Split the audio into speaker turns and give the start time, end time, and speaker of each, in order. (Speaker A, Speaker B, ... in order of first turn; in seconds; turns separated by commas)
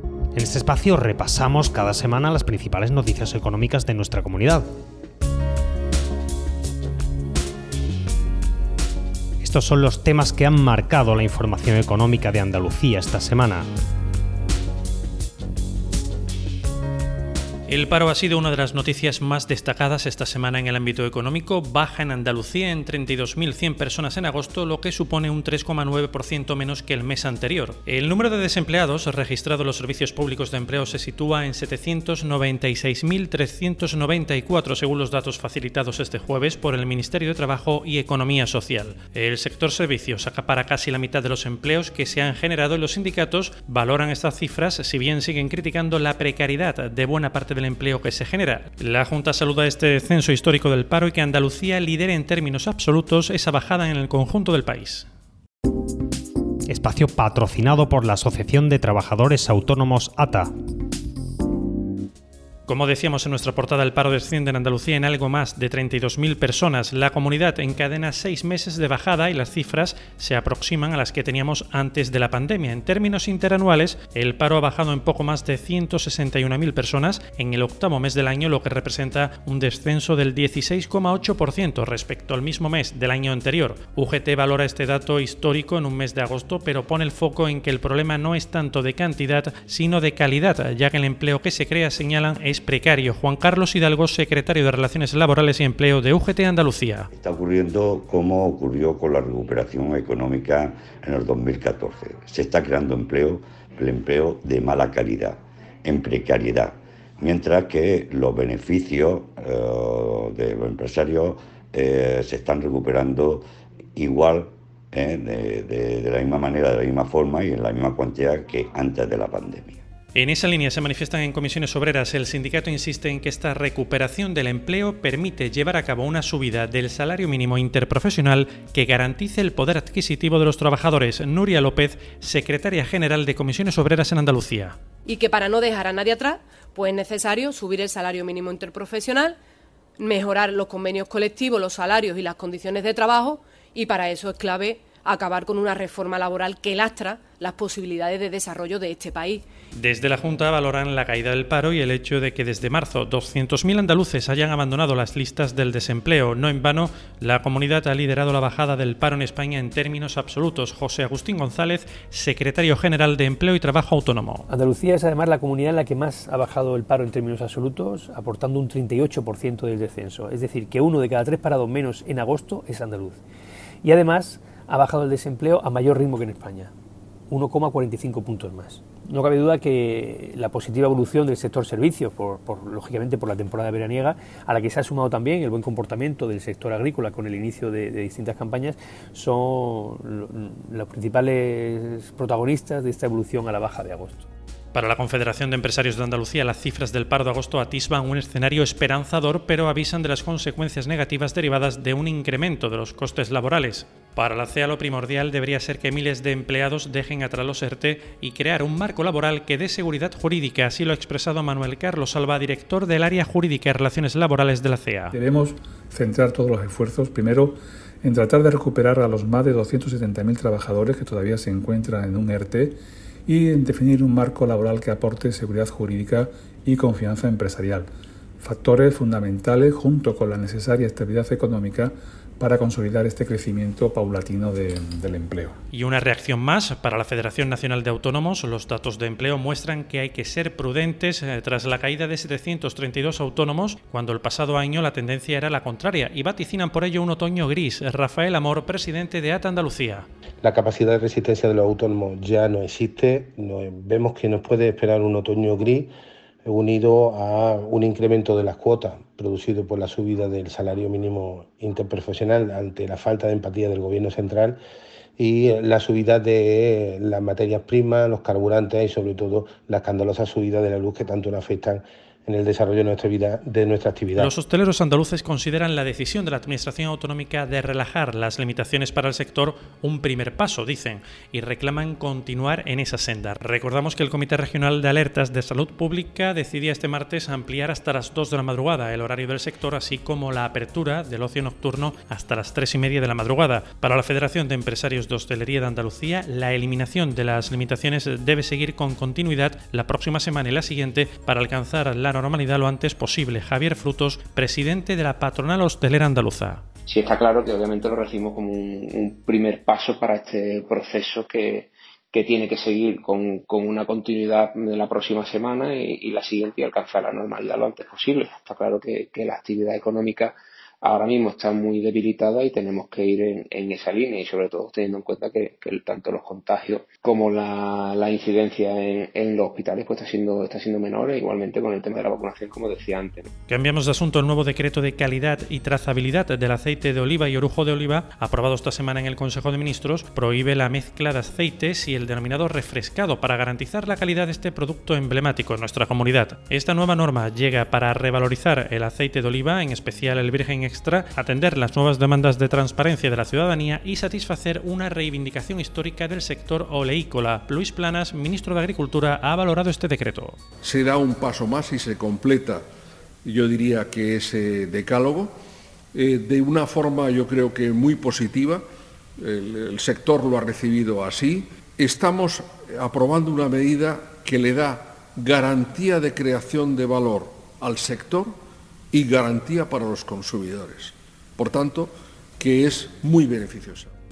Speaker A: 0.3-4.7, Speaker A: 9.4-13.7, Speaker B: 17.7-55.1, Speaker A: 56.7-60.5, Speaker B: 62.7-97.1, Speaker C: 97.1-113.4, Speaker C: 114.0-119.8, Speaker B: 120.1-134.8, Speaker D: 135.1-139.3, Speaker D: 140.0-149.4, Speaker B: 149.7-164.5, Speaker E: 164.5-173.2, Speaker E: 173.8-176.7, Speaker E: 177.3-194.3, Speaker B: 194.7-215.1, Speaker F: 215.1-227.9, Speaker F: 228.4-235.6, Speaker B: 235.7-250.1, Speaker G: 250.4-255.9, Speaker G: 256.4-264.6, Speaker G: 265.2-274.3, Speaker B: 274.1-306.6, Speaker H: 306.9-333.3, Speaker B: 333.5-360.4, Speaker I: 360.6-362.6, Speaker I: 363.2-365.3, Speaker I: 365.9-368.6, Speaker I: 369.2-378.4, Speaker I: 378.9-383.9